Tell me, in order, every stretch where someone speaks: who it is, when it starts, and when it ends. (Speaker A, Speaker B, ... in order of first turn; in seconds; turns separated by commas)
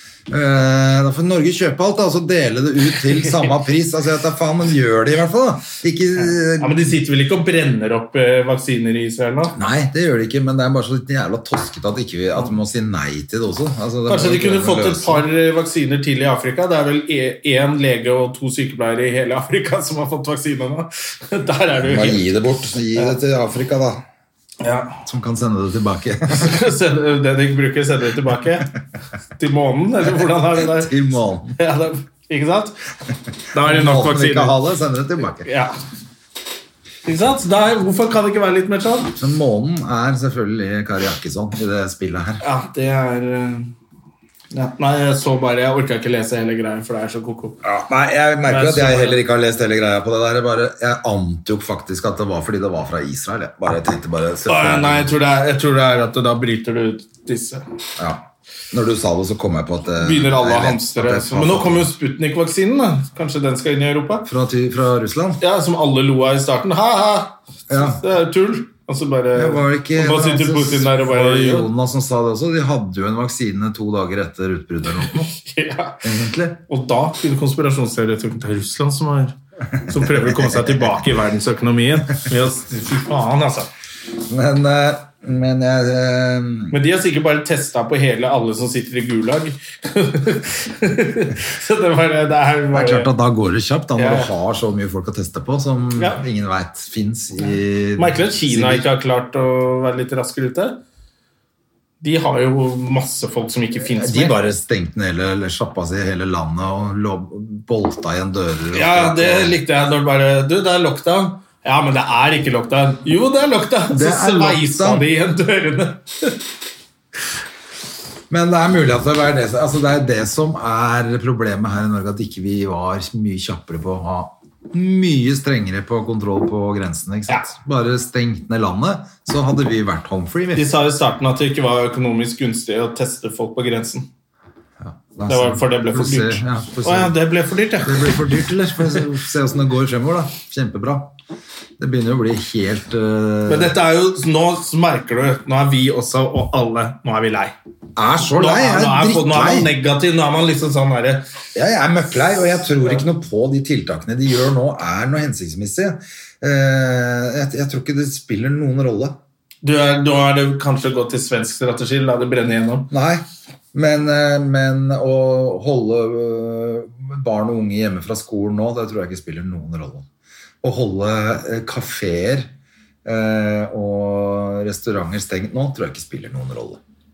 Speaker A: 0.3-6.9, Speaker B: 6.2-9.5, Speaker A: 9.5-15.2, Speaker B: 14.1-22.3, Speaker A: 21.8-24.0, Speaker B: 24.6-24.9, Speaker A: 25.0-26.6, Speaker B: 26.3-28.7, Speaker B: 29.4-30.9, Speaker A: 30.5-31.5, Speaker B: 31.5-32.8, Speaker B: 33.5-34.5, Speaker A: 33.5-35.5, Speaker B: 35.4-35.7, Speaker B: 37.0-39.1, Speaker A: 39.2-42.4, Speaker B: 42.4-43.7, Speaker B: 44.5-47.6, Speaker A: 47.6-55.1, Speaker B: 48.5-49.2, Speaker B: 54.5-57.6, Speaker A: 58.0-61.9, Speaker B: 60.0-64.3, Speaker A: 64.2-65.4, Speaker B: 65.4-71.7, Speaker A: 67.7-68.0, Speaker A: 69.3-75.3, Speaker B: 75.0-76.0, Speaker A: 76.0-76.6, Speaker B: 76.7-83.7, Speaker A: 79.9-80.9, Speaker A: 84.2-86.8, Speaker B: 86.7-93.1, Speaker A: 92.7-98.9, Speaker B: 94.0-94.3, Speaker B: 96.0-96.2, Speaker B: 98.0-100.8, Speaker B: 102.0-104.4, Speaker A: 103.8-109.6, Speaker B: 108.7-116.4, Speaker A: 113.9-115.1, Speaker A: 118.3-130.7, Speaker B: 130.5-134.1, Speaker A: 134.8-137.2, Speaker B: 135.3-138.3, Speaker A: 137.8-141.1, Speaker A: 141.8-143.8, Speaker B: 143.5-147.5, Speaker A: 147.9-149.7, Speaker B: 148.4-151.2, Speaker A: 151.5-159.2, Speaker B: 159.6-162.9, Speaker A: 162.9-170.1, Speaker A: 170.6-172.5, Speaker A: 173.0-176.8